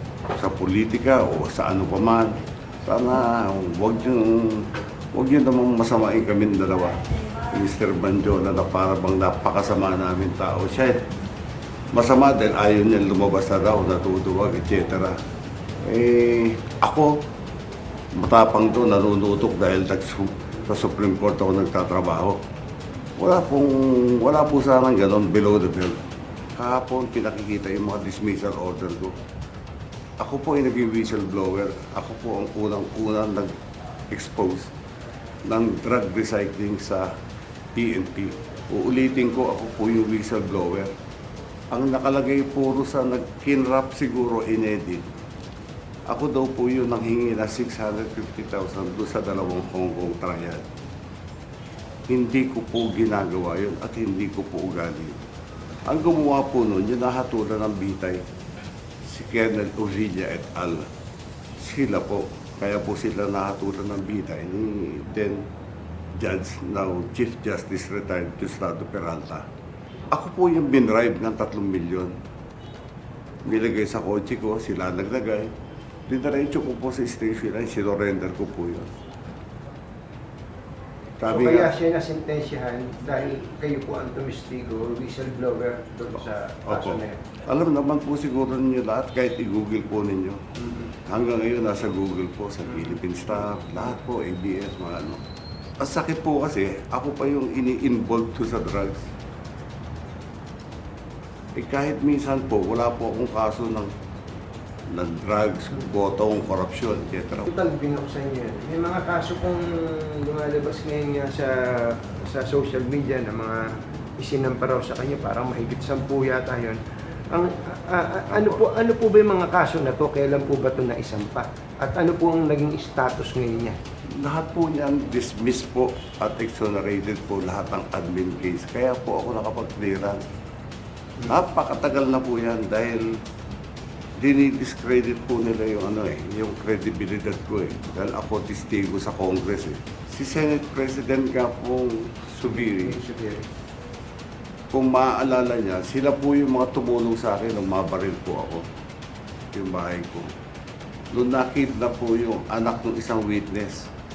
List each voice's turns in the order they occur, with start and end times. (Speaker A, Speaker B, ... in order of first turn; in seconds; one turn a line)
Speaker A: 0.3-7.0
Speaker A: 7.5-11.0
Speaker A: 11.9-15.2
Speaker A: 15.8-17.2
Speaker A: 18.1-22.4
Speaker A: 23.2-26.0
Speaker A: 26.6-29.2
Speaker A: 30.2-33.5
Speaker A: 34.1-34.7
Speaker A: 35.5-37.1
Speaker A: 37.8-40.9
Speaker A: 41.7-45.1
Speaker A: 46.1-50.7
Speaker A: 52.1-55.2
Speaker A: 55.9-58.2
Speaker A: 59.0-60.9
Speaker A: 61.6-65.5
Speaker A: 66.2-69.5
Speaker A: 70.1-72.2
Speaker A: 73.5-75.5
Speaker A: 76.1-78.9
Speaker A: 81.2-81.7
Speaker B: 81.3-87.2
Speaker A: 86.2-90.4
Speaker B: 90.6-90.9
Speaker A: 91.0-95.2
Speaker A: 95.8-99.1
Speaker A: 101.6-103.9
Speaker A: 104.9-107.5
Speaker B: 107.5-116.8
Speaker B: 117.3-123.8
Speaker A: 118.3-118.6
Speaker A: 124.2-130.3
Speaker A: 131.3-133.1
Speaker A: 134.2-143.0
Speaker B: 142.5-143.5
Speaker A: 144.7-148.7
Speaker A: 149.5-150.3
Speaker A: 151.1-153.9